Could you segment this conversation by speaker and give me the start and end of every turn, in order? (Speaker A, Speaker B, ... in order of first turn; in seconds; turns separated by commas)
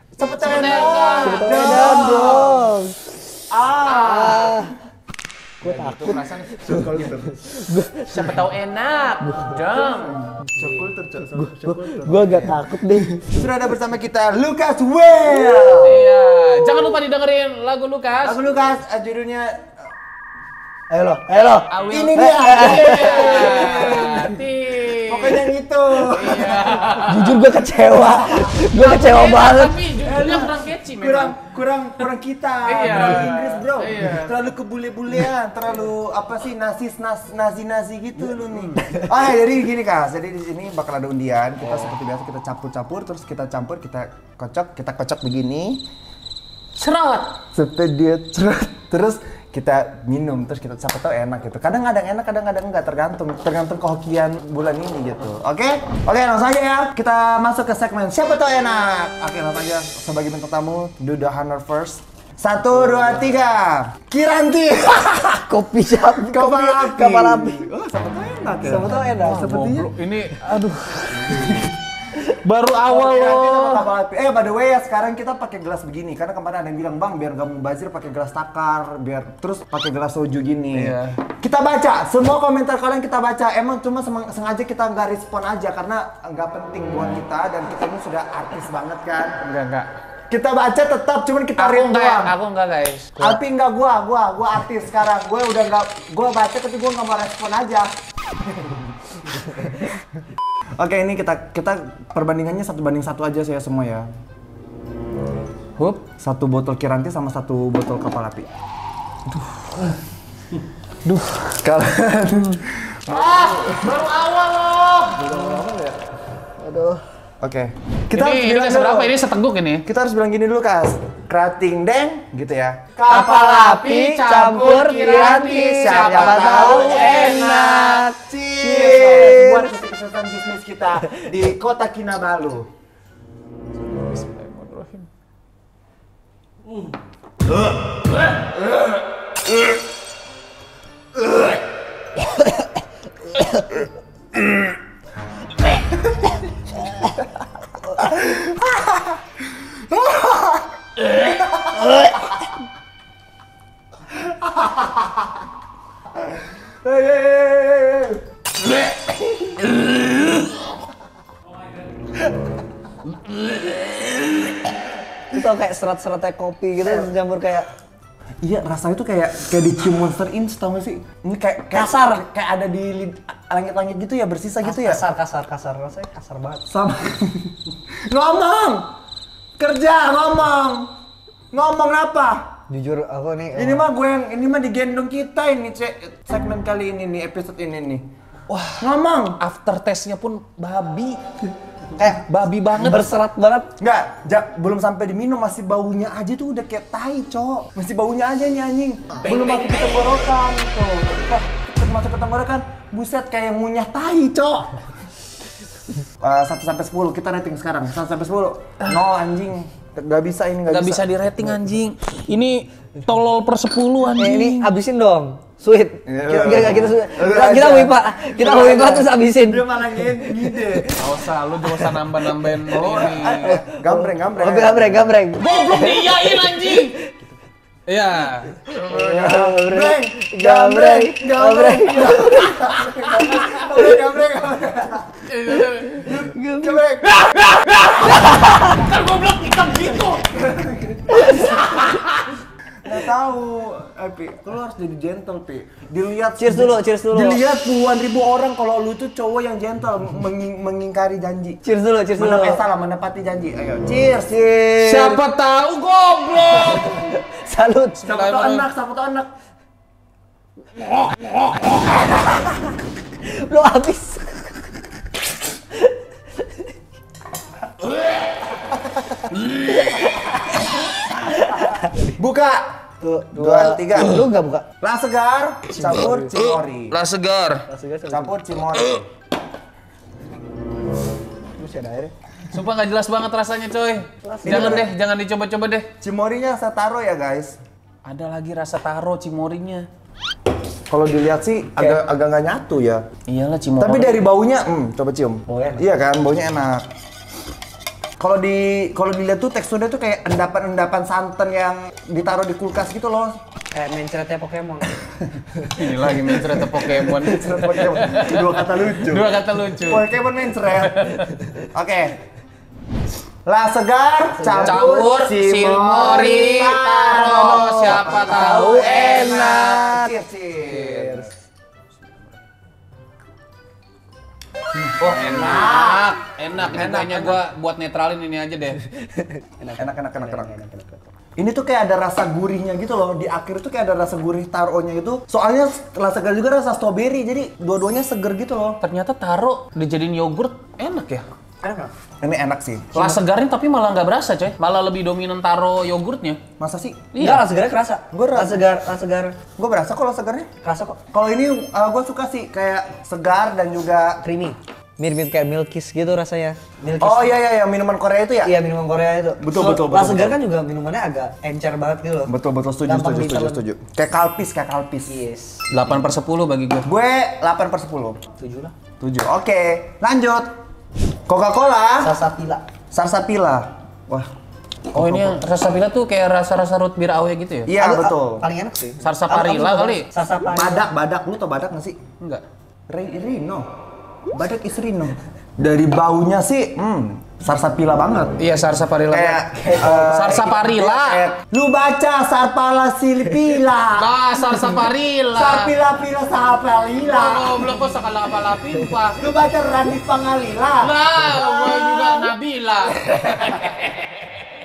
Speaker A: 0.2-2.7, Speaker B: 0.4-2.6, Speaker C: 1.2-3.0, Speaker A: 3.5-4.7, Speaker B: 3.8-4.6, Speaker C: 4.0-4.7, Speaker C: 5.6-8.4, Speaker B: 5.6-7.0, Speaker A: 6.6-7.4, Speaker B: 8.1-10.2, Speaker C: 9.2-9.5, Speaker A: 9.7-16.1, Speaker C: 10.5-10.8, Speaker C: 11.3-13.4, Speaker B: 15.8-18.4, Speaker A: 18.2-19.9, Speaker C: 20.9-24.3, Speaker B: 21.6-27.3, Speaker A: 21.9-24.3, Speaker A: 25.1-27.0, Speaker C: 27.0-29.8, Speaker A: 28.0-28.6, Speaker B: 28.6-31.4, Speaker A: 30.0-45.9, Speaker B: 32.6-34.5, Speaker B: 38.5-38.8, Speaker C: 41.6-41.9, Speaker B: 46.8-47.4, Speaker A: 47.5-65.4, Speaker C: 65.2-67.7, Speaker A: 66.0-69.9, Speaker C: 68.6-69.5, Speaker B: 69.2-73.9, Speaker A: 71.3-71.7, Speaker A: 72.9-89.4, Speaker B: 80.7-81.2, Speaker B: 89.4-89.9, Speaker A: 90.3-92.3, Speaker B: 91.6-93.4, Speaker A: 93.2-100.0, Speaker A: 100.8-104.1, Speaker B: 105.8-106.1, Speaker A: 106.2-108.5, Speaker A: 109.3-109.9, Speaker A: 111.1-113.8, Speaker B: 113.1-115.6, Speaker C: 115.2-115.8, Speaker A: 115.3-115.8, Speaker C: 116.6-117.0, Speaker A: 117.4-119.2, Speaker B: 118.1-119.8, Speaker A: 119.8-123.2, Speaker B: 123.1-128.1, Speaker C: 123.1-128.2, Speaker A: 125.0-127.4, Speaker A: 128.2-132.7, Speaker B: 128.6-129.7, Speaker C: 128.8-129.6, Speaker B: 133.9-135.1, Speaker A: 148.0-149.0, Speaker A: 149.7-150.7, Speaker A: 156.8-158.2, Speaker A: 159.1-159.7, Speaker C: 165.3-167.7, Speaker A: 166.8-167.1, Speaker A: 168.4-175.0, Speaker C: 171.7-172.2, Speaker C: 174.6-176.6, Speaker A: 176.7-178.8, Speaker A: 179.6-180.9, Speaker A: 181.5-182.5, Speaker C: 182.7-183.8, Speaker A: 183.5-188.1, Speaker B: 188.5-191.2, Speaker A: 188.8-189.4, Speaker C: 192.0-192.2, Speaker B: 192.0-193.1, Speaker C: 192.7-193.7, Speaker A: 193.8-204.8, Speaker A: 206.2-211.1, Speaker B: 210.7-214.7, Speaker C: 214.2-220.6, Speaker A: 216.1-221.0, Speaker B: 220.9-223.6, Speaker C: 221.6-222.0, Speaker A: 222.7-225.2, Speaker C: 222.7-227.1, Speaker B: 225.4-227.0, Speaker B: 227.9-228.7, Speaker C: 228.7-234.0, Speaker A: 228.7-235.2, Speaker B: 235.2-236.1, Speaker A: 236.0-237.4, Speaker C: 236.0-236.9, Speaker B: 237.0-240.4, Speaker C: 237.9-238.8, Speaker A: 240.4-241.8, Speaker B: 241.2-242.2, Speaker C: 241.2-241.7, Speaker A: 242.8-251.6, Speaker C: 246.4-247.4, Speaker C: 251.6-252.6, Speaker A: 252.2-255.2, Speaker B: 254.8-257.1, Speaker C: 256.8-258.0, Speaker B: 257.9-258.7, Speaker A: 258.0-259.3, Speaker C: 263.2-264.6, Speaker C: 265.8-266.6, Speaker C: 269.2-270.6, Speaker C: 271.2-272.1, Speaker A: 272.1-272.6, Speaker C: 273.0-274.6, Speaker A: 273.3-274.3, Speaker A: 274.8-277.0, Speaker C: 275.8-276.2, Speaker B: 275.8-277.6, Speaker C: 277.7-278.3, Speaker A: 278.1-279.1, Speaker C: 281.6-282.1, Speaker B: 282.5-285.9, Speaker C: 284.2-284.9, Speaker A: 284.4-284.9, Speaker A: 286.0-287.6, Speaker B: 288.0-289.9, Speaker A: 290.9-293.0, Speaker C: 291.8-292.0, Speaker B: 293.3-294.3, Speaker A: 293.8-296.8, Speaker C: 295.5-295.9, Speaker A: 298.2-303.4, Speaker C: 303.7-305.7, Speaker B: 305.7-310.1, Speaker A: 306.5-311.2, Speaker B: 310.8-311.3, Speaker A: 311.7-312.2, Speaker A: 313.4-321.3, Speaker C: 314.3-315.0, Speaker B: 314.6-319.9, Speaker C: 317.1-321.3, Speaker B: 321.9-322.4, Speaker A: 324.8-327.4, Speaker B: 325.0-328.8, Speaker C: 328.9-331.0, Speaker A: 329.8-330.6, Speaker A: 331.4-338.8, Speaker B: 338.8-341.2, Speaker C: 341.6-341.9, Speaker A: 342.2-343.1, Speaker B: 342.9-346.4, Speaker A: 346.6-347.1, Speaker B: 347.1-347.4, Speaker C: 347.2-349.4, Speaker A: 348.1-348.6, Speaker A: 349.6-350.5, Speaker C: 350.6-351.0, Speaker A: 351.1-354.2, Speaker C: 354.2-357.4, Speaker A: 357.0-358.5, Speaker C: 358.4-362.3, Speaker A: 359.4-360.4, Speaker A: 362.3-365.2, Speaker C: 362.9-363.6, Speaker C: 365.1-365.7, Speaker B: 365.7-366.9, Speaker A: 366.8-368.2, Speaker C: 368.4-368.7, Speaker A: 369.0-370.5, Speaker A: 371.3-372.1, Speaker C: 372.0-372.6, Speaker A: 372.9-374.3, Speaker A: 374.9-375.4, Speaker B: 374.9-377.7, Speaker A: 377.6-378.4, Speaker C: 377.8-380.9, Speaker B: 379.0-380.1, Speaker A: 380.5-382.0, Speaker A: 382.9-383.7, Speaker A: 384.3-388.4, Speaker B: 388.4-391.3, Speaker A: 389.1-394.1, Speaker C: 389.6-390.1, Speaker C: 393.3-393.6, Speaker B: 393.9-395.7, Speaker A: 395.3-397.7, Speaker B: 397.1-399.3, Speaker A: 399.2-402.3, Speaker B: 400.8-404.2